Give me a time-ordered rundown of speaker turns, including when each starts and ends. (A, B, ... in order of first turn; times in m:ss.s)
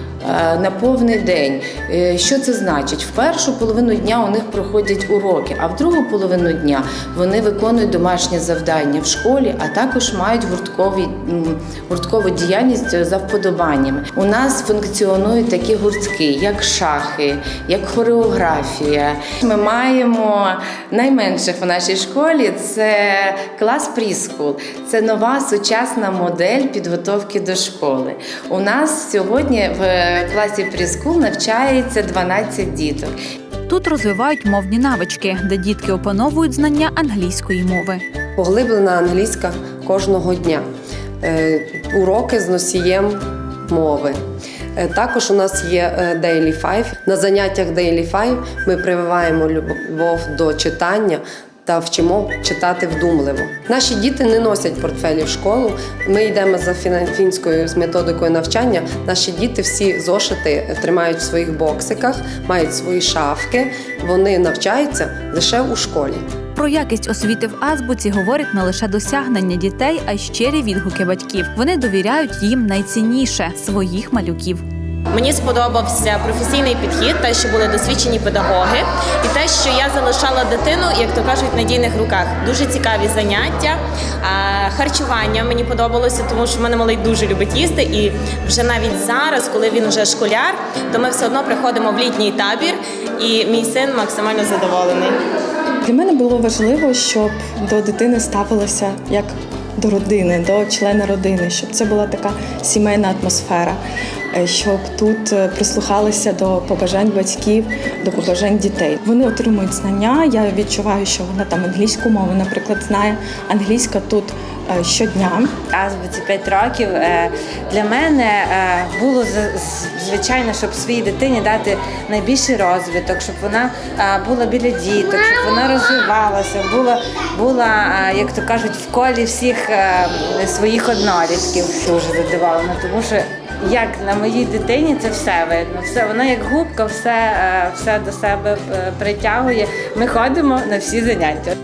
0:00.2-0:33.1 A
0:33.7-0:38.0 B
0:38.4-0:40.6 C
0:41.2-0:44.2 C
0:44.8-1:06.2 C
1:06.6-1:14.6 B
1:15.2-1:23.8 D
1:24.3-1:35.1 D
1:35.8-1:43.8 E
1:44.3-1:55.6 E
1:55.7-2:21.5 F